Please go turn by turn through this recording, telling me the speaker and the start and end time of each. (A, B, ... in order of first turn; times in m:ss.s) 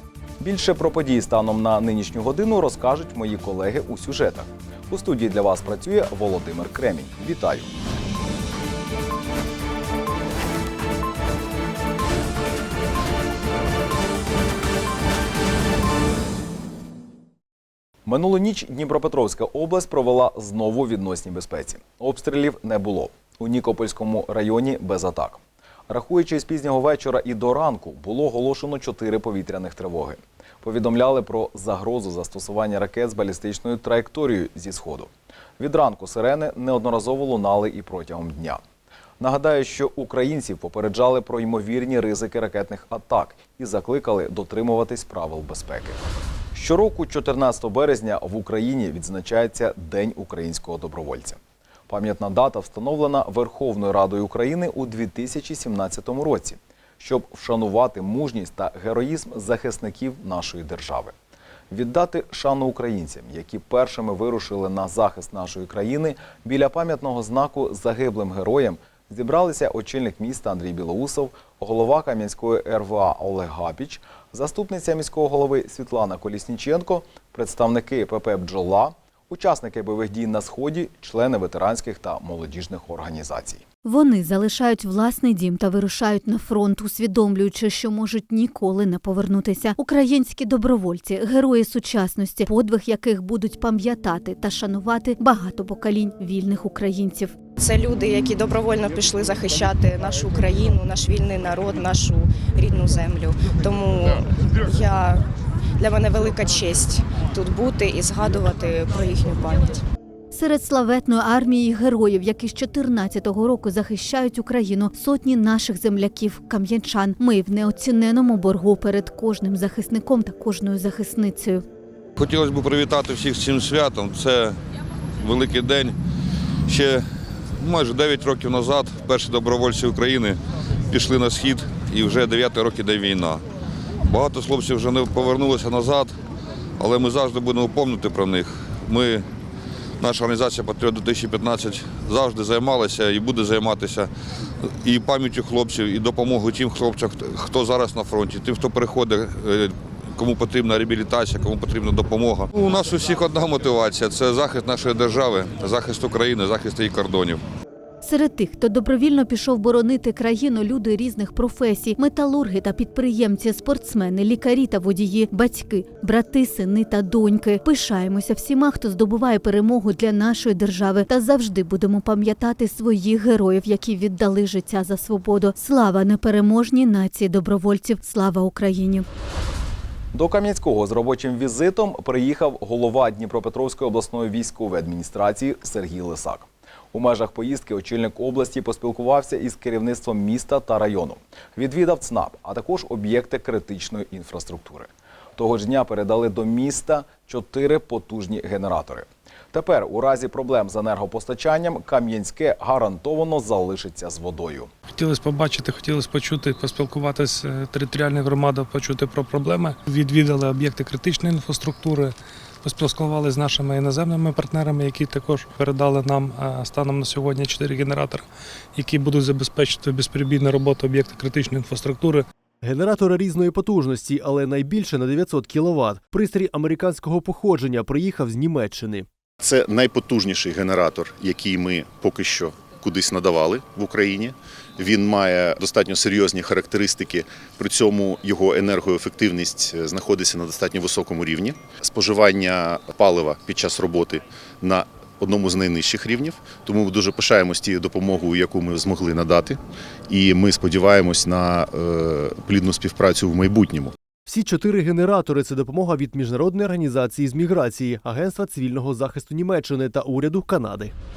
0:00.4-0:07.7 A
0:18.0-0:38.6 A
0:39.2-0:46.0 A
0:46.5-1:01.1 A
1:01.7-1:23.6 A
1:23.8-1:37.4 B
1:37.6-1:45.2 C
1:45.8-1:49.8 C
1:50.3-2:01.6 B
2:02.2-2:04.6 D
2:05.2-2:06.0 D
2:06.7-2:07.0 D
2:07.6-2:10.4 D
2:10.9-2:13.4 D
2:14.0-2:16.1 D
2:16.8-2:19.2 D
2:20.0-2:24.1 D
2:24.6-2:37.4 D
2:38.0-2:59.0 B
3:00.1-3:24.7 A
3:24.9-3:42.2 E
3:42.7-3:43.2 F
3:44.0-3:46.3 F
3:47.6-3:48.0 F
3:48.5-3:49.0 F
3:49.4-4:13.9 G